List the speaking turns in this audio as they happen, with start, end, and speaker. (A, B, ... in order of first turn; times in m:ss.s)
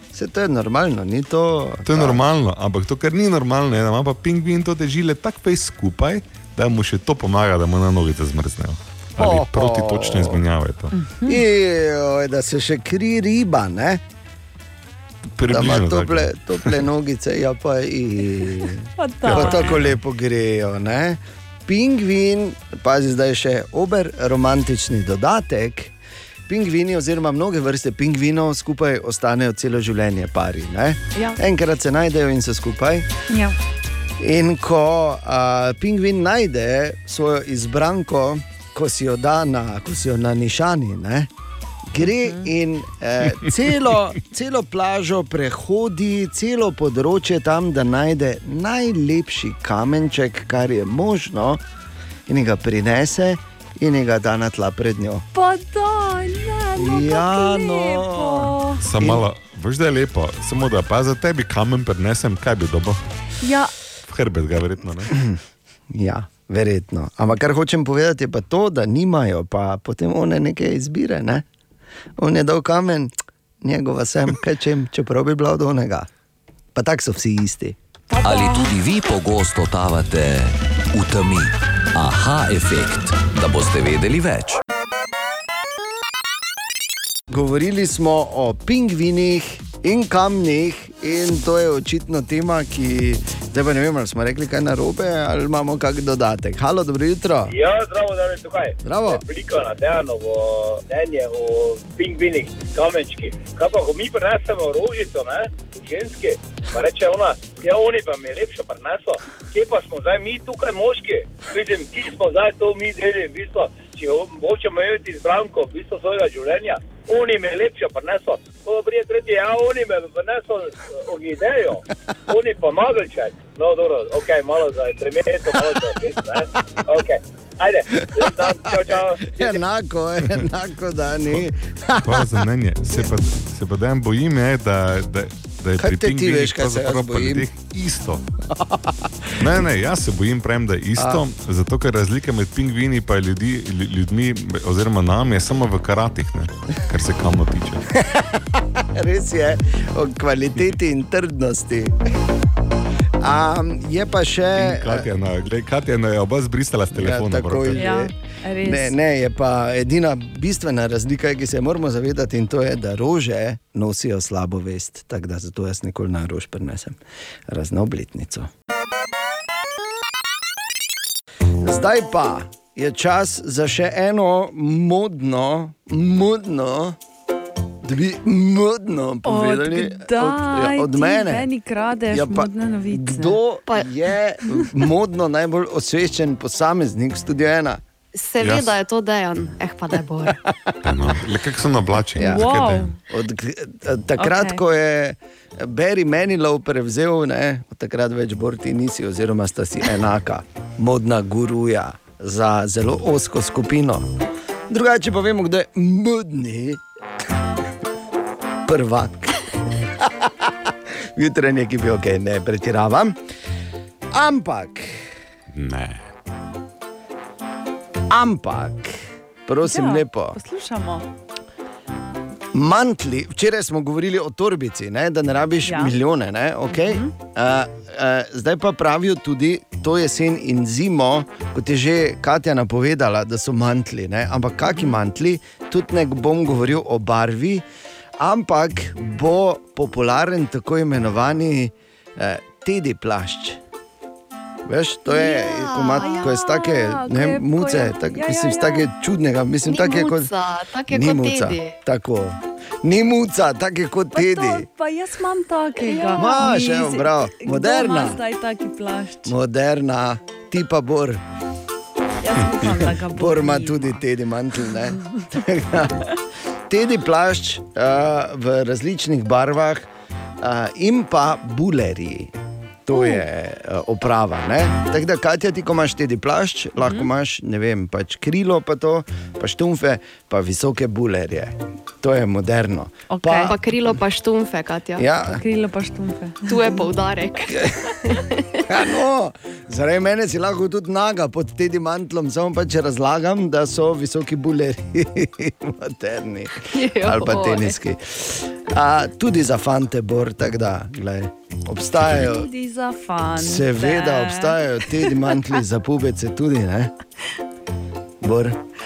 0:00.1-0:02.2 A
0:01.9-0:10.9 B
0:09.2-0:10.4 A
0:10.9-0:11.4 C
0:11.2-0:14.0 A
0:15.4-0:16.8 B
0:15.5-0:25.9 A
0:19.0-0:19.8 C
0:19.3-0:20.0 B
0:26.5-0:33.1 A
0:33.3-0:33.5 C
0:34.2-0:41.3 A
0:41.9-0:51.6 A
0:52.3-0:55.2 A
0:55.3-0:58.8 C
0:56.8-0:59.2 A
0:58.8-1:03.0 B
1:03.4-1:03.7 C
1:04.1-1:05.2 B
1:05.1-1:05.4 A
1:05.9-1:11.4 A
1:12.2-1:16.1 A
1:16.8-1:17.8 A
1:18.2-1:24.6 D
1:27.3-1:37.6 A
1:37.5-2:09.6 E
1:38.8-1:39.2 A
2:08.2-2:12.3 A
2:12.0-2:18.2 B
2:15.8-2:17.5 A
2:18.5-2:19.6 A
2:19.4-2:27.8 B
2:21.0-2:21.2 A
2:28.0-2:32.0 A
2:33.2-2:35.1 A
2:34.6-2:37.8 B
2:36.9-2:47.0 A
2:37.8-2:39.0 C
2:47.5-2:48.5 A
2:51.6-2:57.0 A
2:57.8-3:01.5 A
2:59.2-3:03.4 C
3:02.1-3:07.8 A
3:08.2-3:10.4 F
3:08.4-3:08.8 B
3:10.8-3:12.9 B
3:12.2-3:12.5 A
3:12.2-3:13.0 C
3:13.1-3:24.1 A
3:14.2-3:14.6 C
3:24.7-3:26.8 A
3:28.7-3:29.4 A
3:30.0-3:33.2 A
3:34.1-3:35.1 A
3:35.5-3:36.0 B
3:38.1-3:40.4 A
3:39.6-3:41.1 C
3:42.5-3:57.6 A
3:45.6-3:45.9 C
3:46.7-3:47.1 C
3:58.2-4:03.6 A
4:04.7-4:10.3 A
4:05.1-4:08.9 C
4:05.8-4:06.3 F
4:09.7-4:11.8 F
4:10.9-4:14.7 A
4:14.1-4:19.3 C
4:15.9-4:16.3 F
4:16.2-4:18.2 A
4:19.3-4:21.2 A
4:22.2-4:24.0 C
4:22.8-4:26.1 A
4:26.7-4:29.9 A
4:30.4-4:32.3 A
4:32.9-4:43.6 A
4:32.9-4:33.2 C
4:36.8-4:37.1 C
4:43.1-4:43.5 C
4:43.5-4:45.0 F
4:45.0-4:45.4 A
4:45.4-4:46.8 C
4:46.5-4:48.8 F
4:47.5-4:47.8 A
4:48.7-5:02.5 A
4:56.7-4:57.8 F
5:02.0-5:02.3 B
5:02.1-5:05.1 C
5:03.4-5:06.9 A
5:08.2-5:08.6 A